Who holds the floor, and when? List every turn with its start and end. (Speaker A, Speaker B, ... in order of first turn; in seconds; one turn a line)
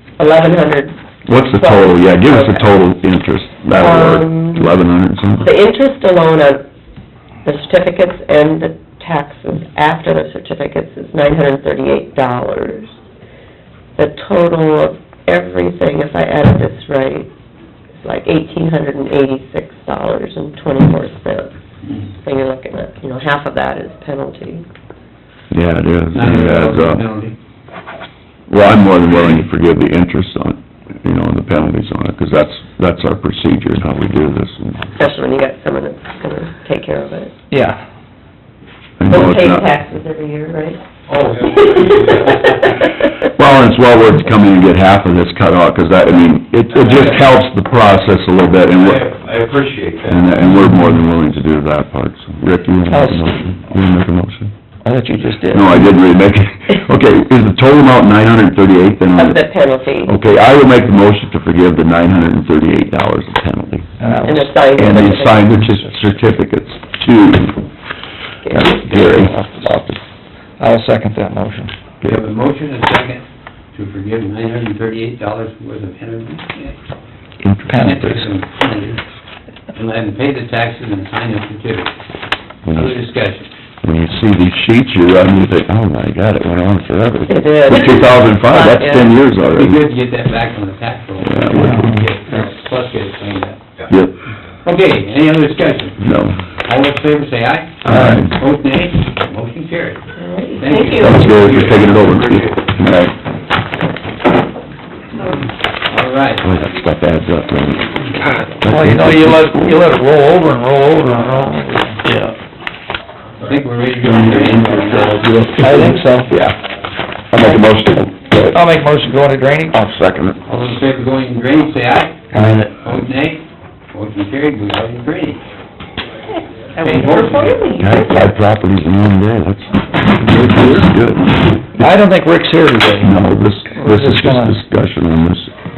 Speaker A: 0.2-2.8
Speaker B: 1.2-5.5
Speaker A: 3.7-4.7
Speaker A: 5.4-6.6
Speaker A: 7.4-13.0
Speaker A: 14.0-17.3
Speaker A: 17.9-21.6
Speaker A: 22.1-24.7
Speaker B: 25.5-27.1
Speaker C: 26.1-27.4
Speaker B: 28.5-35.0
Speaker A: 35.0-37.4
Speaker D: 37.5-37.8
Speaker B: 39.0-39.7
Speaker A: 39.1-40.8
Speaker E: 41.1-42.7
Speaker A: 41.4-43.3
Speaker B: 43.3-49.0
Speaker E: 46.7-47.3
Speaker E: 48.7-50.5
Speaker B: 50.1-54.5
Speaker D: 50.6-50.9
Speaker D: 52.9-53.4
Speaker D: 54.8-56.0
Speaker B: 55.5-59.4
Speaker A: 59.2-60.2
Speaker B: 60.0-63.9
Speaker D: 64.0-65.0
Speaker A: 64.2-65.5
Speaker B: 64.8-67.6
Speaker A: 68.4-68.8
Speaker D: 68.5-70.0
Speaker B: 68.6-69.4
Speaker D: 70.6-71.7
Speaker C: 72.0-76.8
Speaker B: 77.4-77.7
Speaker D: 77.6-78.3
Speaker C: 77.7-79.0
Speaker C: 79.7-81.9
Speaker B: 82.7-82.9
Speaker C: 82.7-83.5
Speaker B: 83.8-89.8
Speaker A: 87.3-89.2
Speaker C: 89.5-93.6
Speaker B: 91.2-92.0
Speaker D: 91.5-92.0
Speaker B: 93.9-94.2
Speaker C: 94.6-100.0
Speaker B: 96.0-96.4
Speaker B: 97.8-98.3
Speaker D: 97.9-98.3
Speaker A: 100.2-101.4
Speaker C: 100.6-102.0
Speaker B: 101.0-103.2
Speaker E: 101.4-102.6
Speaker C: 105.9-106.5
Speaker B: 106.4-109.7
Speaker D: 108.7-112.2
Speaker C: 113.4-115.7
Speaker E: 114.2-115.2
Speaker B: 115.1-116.5
Speaker D: 115.3-116.5
Speaker B: 117.3-118.6
Speaker D: 118.5-119.9
Speaker B: 119.7-120.4
Speaker C: 120.4-125.4
Speaker D: 122.3-122.9
Speaker A: 126.8-128.3
Speaker C: 126.8-127.6
Speaker E: 126.8-127.2
Speaker B: 127.8-131.9
Speaker C: 130.2-130.9
Speaker D: 131.8-133.2
Speaker B: 133.0-135.5
Speaker D: 133.7-134.6